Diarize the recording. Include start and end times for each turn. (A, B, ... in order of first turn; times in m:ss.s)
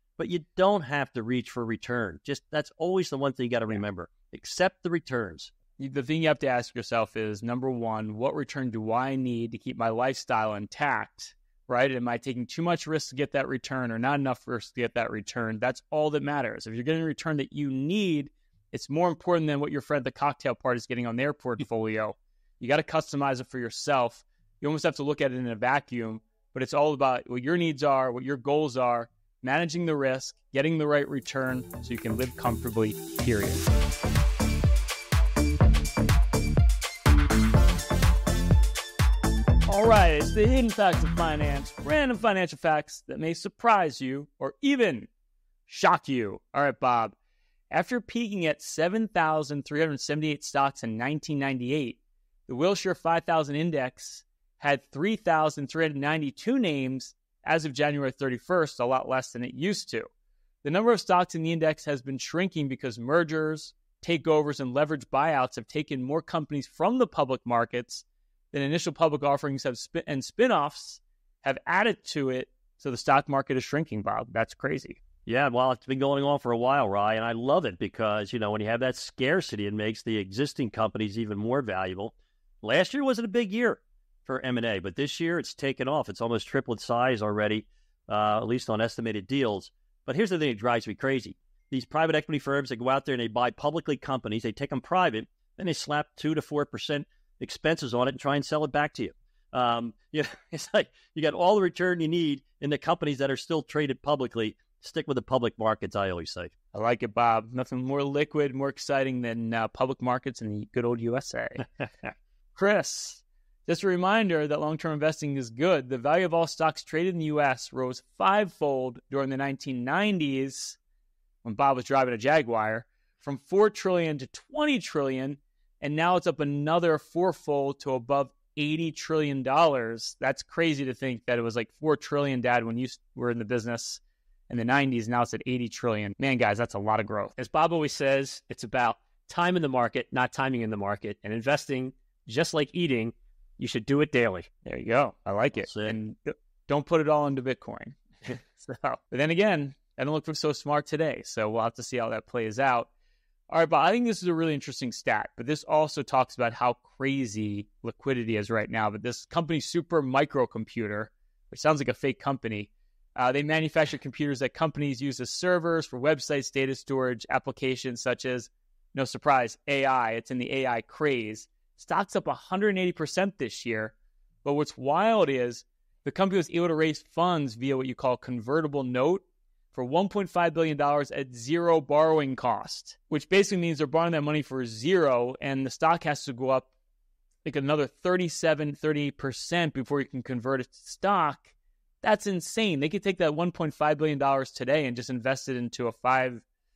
0:00.2-0:05.5 A
0:05.8-0:33.7 B
0:39.7-0:45.1 B
0:45.7-0:47.2 B
0:47.7-1:00.1 B
1:00.6-1:15.0 B
1:15.2-1:46.5 A
1:46.7-1:51.7 B
1:52.5-2:00.8 B
2:01.4-2:17.3 B
2:17.4-2:24.5 C
2:24.6-2:32.9 B
2:25.6-2:25.9 A
2:33.5-3:06.7 B
3:07.4-3:11.5 B
3:12.0-3:16.4 B